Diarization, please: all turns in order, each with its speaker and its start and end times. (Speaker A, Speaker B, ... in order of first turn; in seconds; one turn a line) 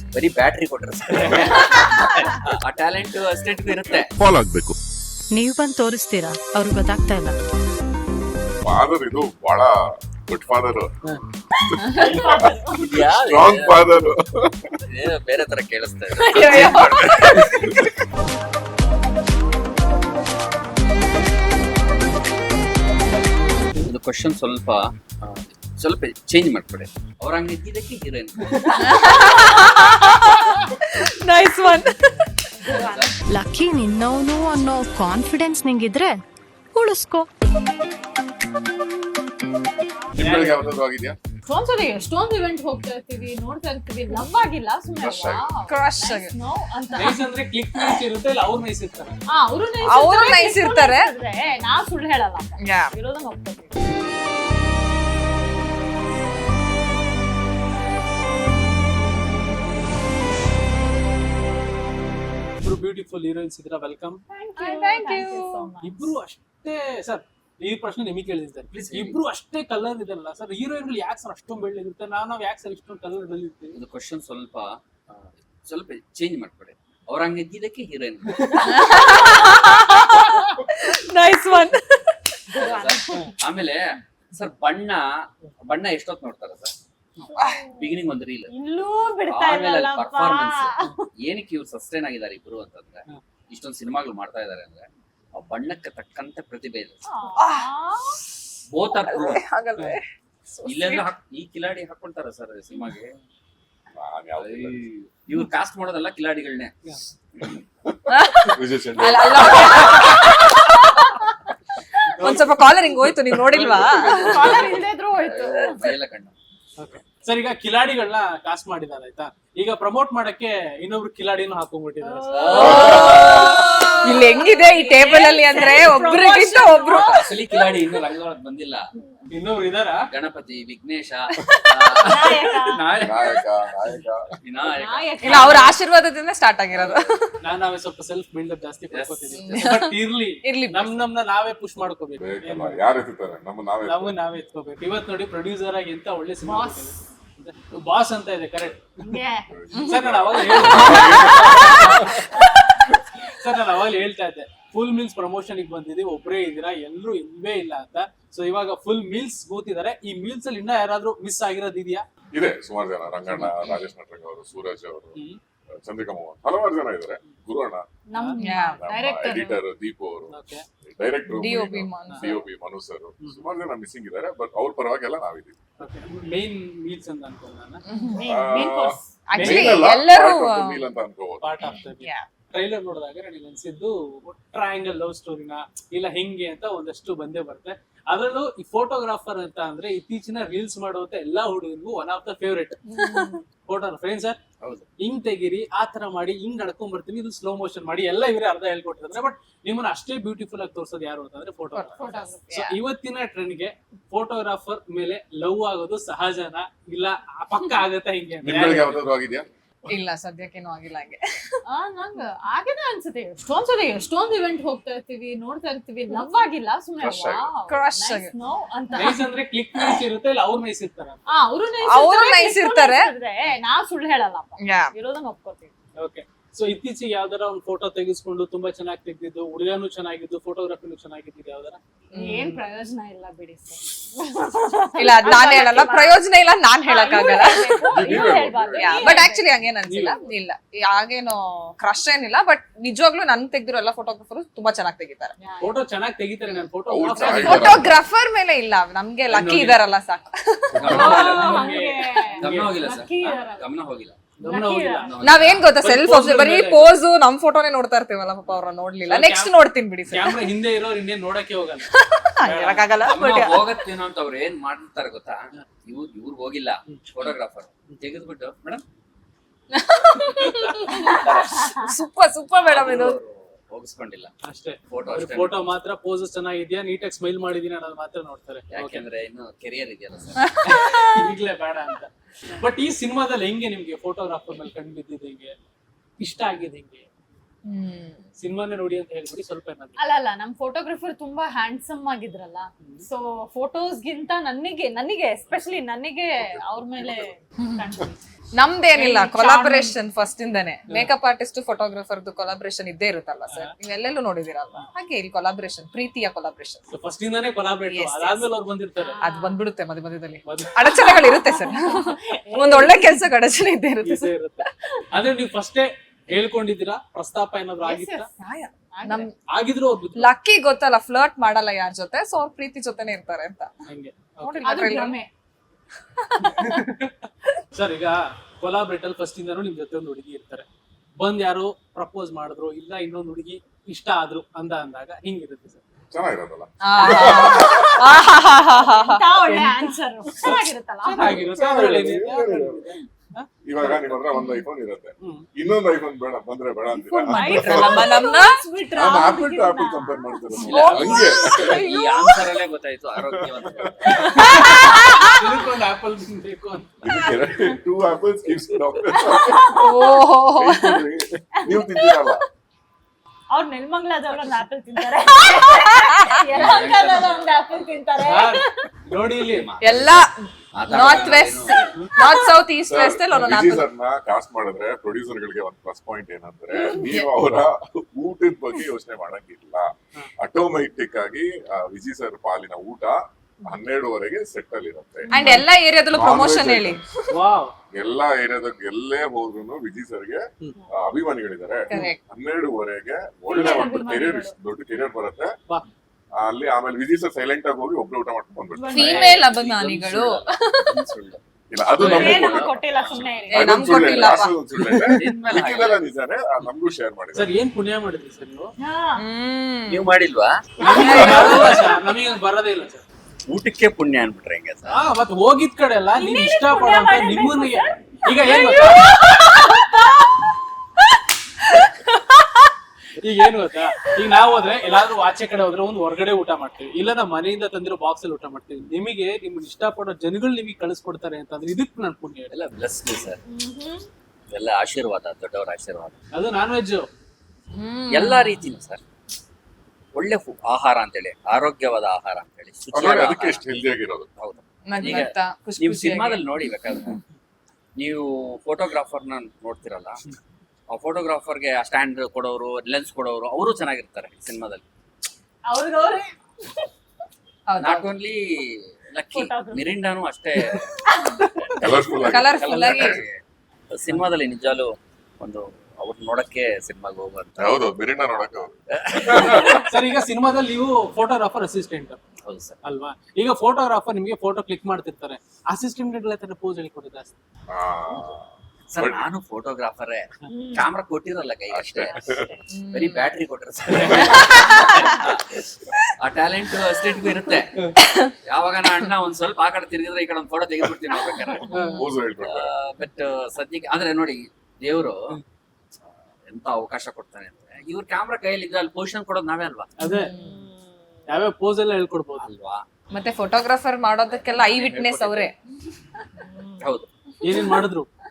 Speaker A: 0.1-4.1
Speaker B: 1.3-1.6
Speaker B: 4.2-4.7
Speaker C: 5.3-7.3
Speaker B: 8.6-9.7
Speaker B: 10.2-10.9
Speaker B: 11.7-14.8
Speaker D: 11.9-12.8
Speaker A: 12.8-13.8
Speaker A: 14.9-17.6
Speaker E: 16.2-17.5
Speaker B: 16.7-18.0
Speaker A: 23.8-29.1
Speaker E: 28.7-32.3
Speaker D: 32.6-33.2
Speaker A: 32.6-33.1
Speaker C: 33.2-36.2
Speaker C: 36.7-37.3
Speaker B: 40.1-41.2
Speaker F: 40.2-40.7
Speaker D: 41.5-47.3
Speaker B: 45.0-45.5
Speaker E: 45.7-46.3
Speaker F: 46.9-49.2
Speaker D: 49.3-53.7
Speaker E: 49.8-51.1
Speaker E: 52.6-52.9
Speaker F: 62.6-64.2
Speaker D: 64.3-66.1
Speaker E: 64.6-65.7
Speaker F: 65.8-73.8
Speaker A: 68.7-69.2
Speaker A: 73.7-79.5
Speaker E: 78.6-82.4
Speaker D: 82.5-83.3
Speaker A: 82.5-86.7
Speaker E: 87.3-87.6
Speaker D: 87.3-87.8
Speaker A: 87.7-88.5
Speaker D: 88.5-91.0
Speaker A: 89.3-97.0
Speaker D: 97.0-98.2
Speaker E: 97.3-97.7
Speaker A: 98.7-99.4
Speaker E: 99.1-101.1
Speaker A: 100.6-103.1
Speaker B: 103.9-104.8
Speaker A: 104.3-106.7
Speaker E: 108.1-114.6
Speaker B: 108.5-110.0
Speaker F: 112.2-112.7
Speaker A: 113.6-116.3
Speaker B: 113.8-114.0
Speaker D: 114.1-115.9
Speaker F: 116.8-122.9
Speaker D: 122.0-127.8
Speaker A: 122.3-123.8
Speaker E: 122.5-127.2
Speaker A: 126.9-128.9
Speaker F: 129.3-130.1
Speaker A: 130.1-133.4
Speaker E: 131.4-132.4
Speaker D: 132.0-133.0
Speaker B: 133.0-134.4
Speaker A: 134.4-135.6
Speaker D: 134.7-135.8
Speaker E: 135.2-137.3
Speaker A: 136.7-137.0
Speaker F: 137.4-142.8
Speaker A: 138.9-139.7
Speaker E: 139.4-140.9
Speaker B: 142.2-144.1
Speaker F: 143.8-149.1
Speaker D: 146.4-147.0
Speaker D: 149.1-149.5
Speaker B: 149.5-152.3
Speaker E: 149.8-151.9
Speaker F: 149.8-152.0
Speaker D: 150.8-152.6
Speaker F: 153.2-162.0
Speaker B: 162.3-165.2
Speaker F: 163.3-163.5
Speaker F: 165.1-165.4
Speaker B: 165.8-167.8
Speaker D: 168.1-169.6
Speaker F: 168.1-168.4
Speaker E: 168.4-168.8
Speaker B: 168.8-170.3
Speaker F: 170.3-170.7
Speaker B: 170.9-175.6
Speaker E: 171.4-172.3
Speaker F: 172.1-172.3
Speaker F: 175.8-177.8
Speaker E: 177.9-178.2
Speaker D: 178.0-179.1
Speaker B: 178.2-181.4
Speaker E: 179.3-180.8
Speaker F: 179.3-179.8
Speaker F: 181.4-192.8
Speaker E: 181.6-182.3
Speaker E: 192.9-193.4
Speaker F: 193.6-194.4
Speaker A: 194.6-194.9
Speaker F: 195.0-201.9
Speaker E: 201.7-202.7
Speaker D: 201.9-202.6
Speaker F: 202.5-209.0
Speaker B: 208.4-209.4
Speaker E: 209.9-211.6
Speaker D: 211.7-219.2
Speaker B: 217.0-217.5
Speaker E: 217.7-218.3
Speaker F: 218.9-221.2
Speaker D: 221.3-225.7
Speaker E: 221.8-223.1
Speaker E: 224.6-224.9
Speaker F: 226.0-231.8
Speaker E: 232.1-232.5
Speaker D: 232.1-236.2
Speaker F: 232.3-232.6
Speaker E: 235.0-245.3
Speaker D: 236.8-239.6
Speaker B: 237.9-239.1
Speaker F: 239.8-240.3
Speaker D: 245.4-245.7
Speaker F: 245.6-247.9
Speaker B: 246.9-248.0
Speaker E: 247.3-252.3
Speaker F: 249.3-249.8
Speaker B: 250.7-251.0
Speaker A: 250.8-251.7
Speaker D: 250.8-253.7
Speaker F: 251.0-252.8
Speaker A: 252.4-254.2
Speaker F: 254.4-255.1
Speaker D: 254.4-255.1
Speaker A: 255.0-255.7
Speaker E: 255.2-260.6
Speaker F: 255.8-256.9
Speaker F: 259.0-261.9
Speaker E: 261.9-263.7
Speaker F: 262.4-262.9
Speaker A: 263.0-268.8
Speaker E: 269.7-273.2
Speaker A: 271.0-271.7
Speaker D: 271.3-271.8
Speaker A: 272.6-274.3
Speaker F: 274.4-279.1
Speaker A: 274.9-275.6
Speaker A: 278.7-280.4
Speaker E: 280.4-281.2
Speaker F: 280.6-285.5
Speaker F: 286.2-287.1
Speaker E: 287.6-288.2
Speaker F: 288.4-290.0
Speaker D: 290.0-298.2
Speaker B: 296.4-297.2
Speaker E: 298.6-306.8
Speaker D: 298.9-300.0
Speaker F: 306.9-309.2
Speaker E: 307.9-308.5
Speaker D: 309.0-309.6
Speaker E: 309.2-314.7
Speaker F: 310.4-311.2
Speaker D: 311.2-313.2
Speaker F: 314.0-318.3
Speaker D: 317.8-318.3
Speaker E: 318.4-319.3
Speaker D: 318.9-319.3
Speaker F: 319.5-320.3
Speaker E: 320.1-323.7
Speaker F: 323.9-324.6
Speaker E: 324.4-325.2
Speaker D: 324.6-325.3
Speaker E: 326.2-326.8
Speaker F: 326.6-327.1
Speaker F: 327.7-330.6
Speaker F: 331.2-335.8
Speaker B: 336.1-338.1
Speaker E: 336.8-339.9
Speaker D: 338.8-341.5
Speaker F: 340.4-344.2
Speaker B: 341.4-343.0
Speaker B: 343.6-348.1
Speaker F: 345.2-345.5
Speaker D: 346.9-350.7
Speaker E: 347.3-348.6
Speaker B: 348.9-351.9
Speaker A: 350.6-354.7
Speaker E: 350.6-352.5
Speaker B: 353.2-354.5
Speaker E: 354.1-355.6
Speaker F: 354.4-356.9
Speaker B: 357.0-359.8
Speaker D: 359.3-360.1
Speaker E: 359.7-361.0
Speaker B: 360.6-362.4
Speaker D: 361.6-362.1
Speaker D: 363.5-368.8
Speaker A: 366.5-367.7
Speaker F: 368.2-369.7
Speaker A: 369.5-371.7
Speaker E: 369.8-370.4
Speaker E: 370.9-373.9
Speaker B: 372.9-387.0
Speaker E: 376.8-377.3
Speaker E: 385.3-387.3
Speaker F: 387.3-387.8
Speaker B: 387.9-395.5
Speaker E: 391.9-392.2
Speaker D: 393.5-394.6
Speaker B: 396.4-399.4
Speaker D: 398.7-399.4
Speaker E: 398.9-400.9
Speaker A: 399.1-401.4
Speaker B: 401.7-402.7
Speaker A: 402.0-403.4
Speaker D: 402.0-403.7
Speaker E: 403.5-405.1
Speaker B: 403.5-407.5
Speaker A: 405.1-406.1
Speaker F: 407.3-408.7
Speaker D: 408.8-409.2
Speaker E: 409.2-410.1
Speaker A: 409.9-410.6
Speaker F: 410.8-413.0
Speaker E: 410.9-411.8
Speaker D: 411.0-411.9
Speaker A: 411.2-411.5
Speaker A: 413.5-415.0
Speaker F: 414.9-419.0
Speaker D: 416.1-417.9
Speaker E: 418.4-419.8
Speaker E: 421.6-422.6
Speaker F: 423.2-432.5
Speaker A: 432.5-433.4
Speaker D: 433.4-434.1
Speaker A: 434.5-436.2
Speaker F: 436.3-437.1
Speaker E: 437.8-438.6
Speaker A: 438.1-439.0
Speaker A: 440.1-443.8
Speaker B: 442.9-444.3
Speaker A: 444.4-447.2
Speaker E: 444.9-446.4
Speaker A: 448.0-450.2
Speaker A: 450.9-454.8
Speaker D: 455.6-456.9
Speaker E: 457.7-458.1
Speaker A: 457.8-467.9
Speaker D: 459.3-460.0
Speaker D: 461.0-461.4
Speaker B: 461.8-463.1
Speaker E: 462.2-463.2
Speaker B: 467.6-468.7
Speaker A: 468.9-469.9
Speaker B: 469.3-469.8
Speaker F: 469.8-472.2
Speaker A: 472.4-472.8
Speaker F: 472.8-477.3
Speaker B: 477.7-479.2
Speaker A: 478.9-482.4
Speaker D: 480.5-480.8
Speaker B: 481.7-482.5
Speaker D: 482.1-482.6
Speaker E: 482.7-483.3
Speaker A: 482.9-485.4
Speaker B: 484.1-484.9
Speaker E: 484.8-485.1
Speaker A: 486.2-487.9
Speaker E: 488.0-488.3
Speaker A: 488.4-491.7
Speaker F: 491.7-492.1
Speaker E: 491.7-492.0
Speaker B: 491.9-492.7
Speaker A: 492.4-495.4
Speaker A: 496.5-499.9
Speaker F: 500.0-500.3
Speaker E: 500.0-500.6
Speaker D: 500.3-500.7
Speaker F: 501.3-502.5
Speaker A: 502.4-502.8
Speaker E: 503.1-505.6
Speaker A: 504.3-505.5
Speaker A: 506.8-507.1
Speaker F: 507.4-508.1